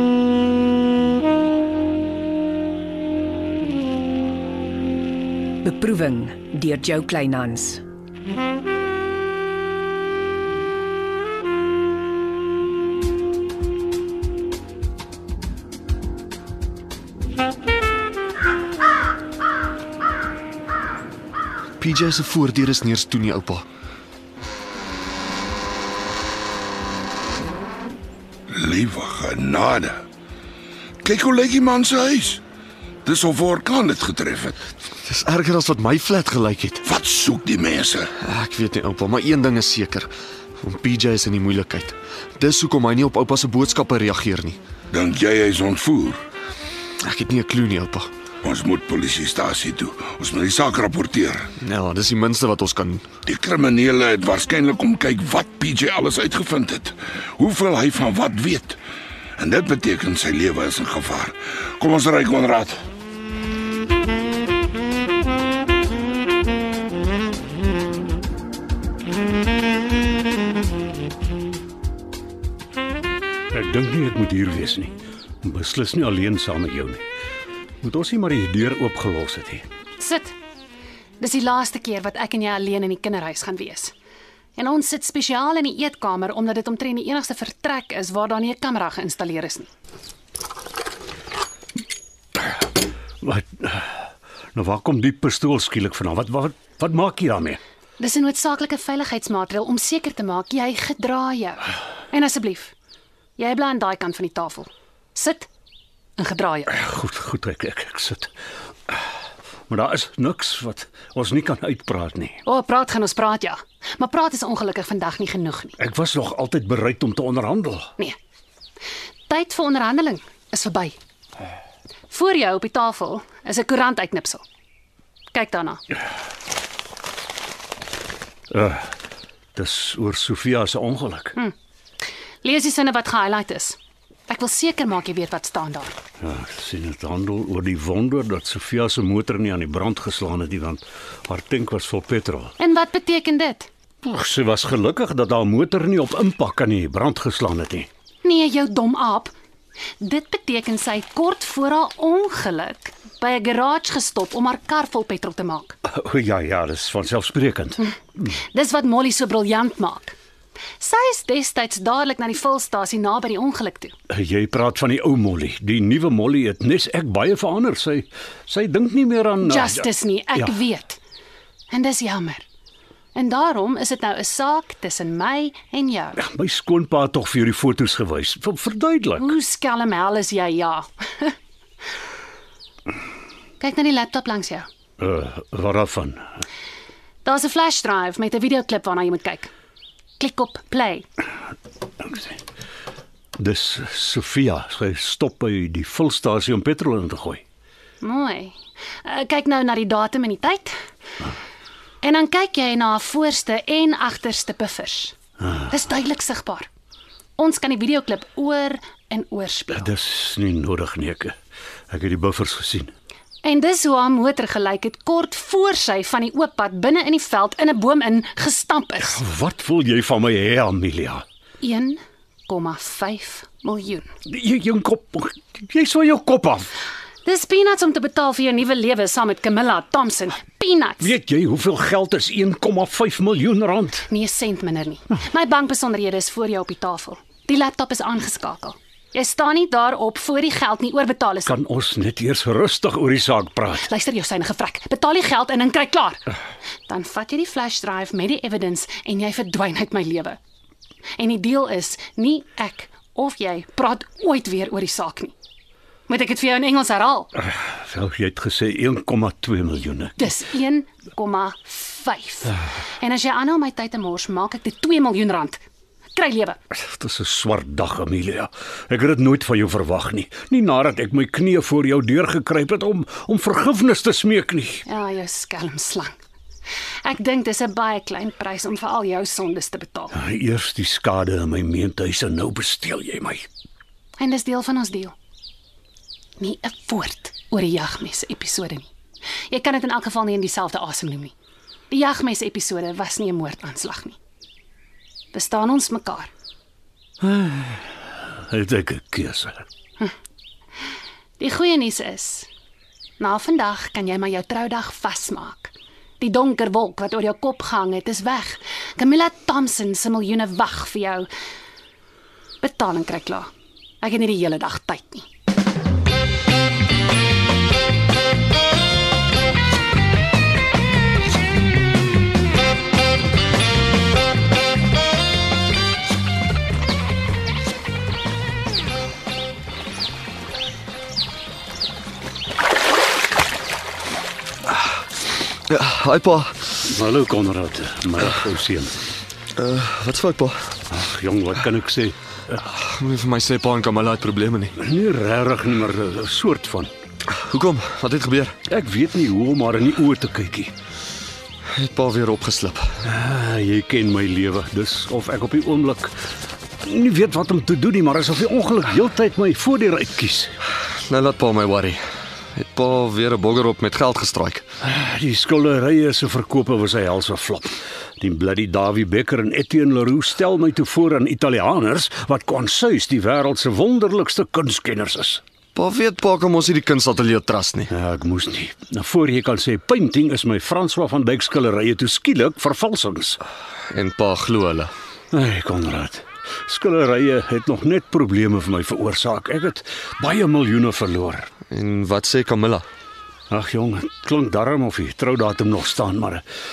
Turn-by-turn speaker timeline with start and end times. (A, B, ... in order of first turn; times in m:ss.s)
0:05.6-0:07.8 A
0:21.8-0:23.6 B
0:28.5-0:30.0 C
0:31.0-0:32.4 C
0:33.0-0:34.6 C
0:35.0-0:36.8 B
0:36.8-0:38.1 C
0:38.2-0:40.1 B
0:40.6-0:44.6 B
0:44.9-0:46.2 C
0:47.0-0:48.1 B
0:48.4-0:51.5 C
0:51.6-0:53.0 B
0:53.2-0:58.8 C
0:59.4-1:02.8 C
1:13.5-1:17.0 D
1:17.8-1:19.6 D
1:20.0-1:20.4 E
1:21.2-1:23.9 E
1:24.6-1:29.7 E
1:33.2-1:33.9 D
1:34.5-1:37.6 D
1:38.0-1:42.7 E
1:43.4-1:45.5 E
1:46.2-1:46.7 E
1:46.7-1:48.3 D
1:49.7-1:52.4 D
1:52.4-1:55.8 E
1:55.8-1:57.9 D
1:59.3-2:01.0 E
2:02.1-2:04.4 E
2:05.3-2:05.8 E
2:08.5-2:08.9 D
2:09.5-2:11.3 D
2:12.4-2:16.0 E
2:16.2-2:22.5 D
2:22.6-2:23.7 E
2:24.0-2:27.9 D
2:28.2-2:29.3 E
2:30.0-2:35.8 E
2:35.8-2:37.8 D
2:37.8-2:40.1 E
2:40.8-2:43.9 E
2:44.1-2:50.5 D
2:49.4-2:51.0 E
2:51.7-2:52.4 E
2:53.1-2:56.2 E
2:56.2-2:59.3 D
2:59.2-3:01.4 E
3:03.6-3:04.7 E
3:05.0-3:06.2 D
3:07.2-3:09.5 E
3:10.2-3:11.1 E
3:12.0-3:12.4 D
3:13.4-3:17.4 D
3:18.0-3:20.7 E
3:22.0-3:25.2 E
3:25.7-3:26.7 E
3:27.4-3:29.9 E
3:29.7-3:31.3 D
3:31.9-3:32.9 D
3:33.4-3:39.2 E
3:39.1-3:41.2 D
3:41.6-3:44.1 E
3:44.3-3:46.7 D
3:47.2-3:51.1 E
3:51.0-3:54.1 D
3:54.1-4:01.5 E
4:01.5-4:03.8 D
4:03.8-4:06.2 E
4:06.9-4:10.4 E
4:11.2-4:15.3 E
4:16.1-4:17.3 E
4:17.6-4:20.2 D
4:20.2-4:25.6 E
4:26.1-4:26.6 E
4:26.7-4:34.8 D
4:34.8-4:36.2 E
4:37.0-4:40.2 E
4:40.1-4:43.4 D
4:44.2-4:45.1 E
4:46.4-4:48.9 E
4:49.5-4:51.3 E
4:51.9-4:54.2 E
4:55.3-4:56.3 E
4:57.2-4:57.8 D
4:58.5-4:59.6 D
5:01.4-5:02.5 E
5:03.2-5:11.3 E
5:12.6-5:13.5 E
5:14.0-5:15.2 E
5:35.7-5:36.7 B
5:36.8-5:39.0 D
5:39.6-5:40.6 B
5:40.9-5:42.2 D
5:42.6-5:44.8 B
5:44.8-5:46.9 D
5:47.3-5:48.6 B
5:48.7-5:50.7 D
5:51.7-5:52.8 B
5:53.0-5:56.1 D
5:56.8-6:00.6 D
6:01.0-6:02.0 B
6:02.5-6:04.6 B
6:04.8-6:15.4 D
6:15.7-6:17.9 B
6:17.9-6:23.4 D
6:23.9-6:24.9 B
6:25.3-6:31.5 D
6:31.7-6:32.8 B
6:33.5-6:36.4 D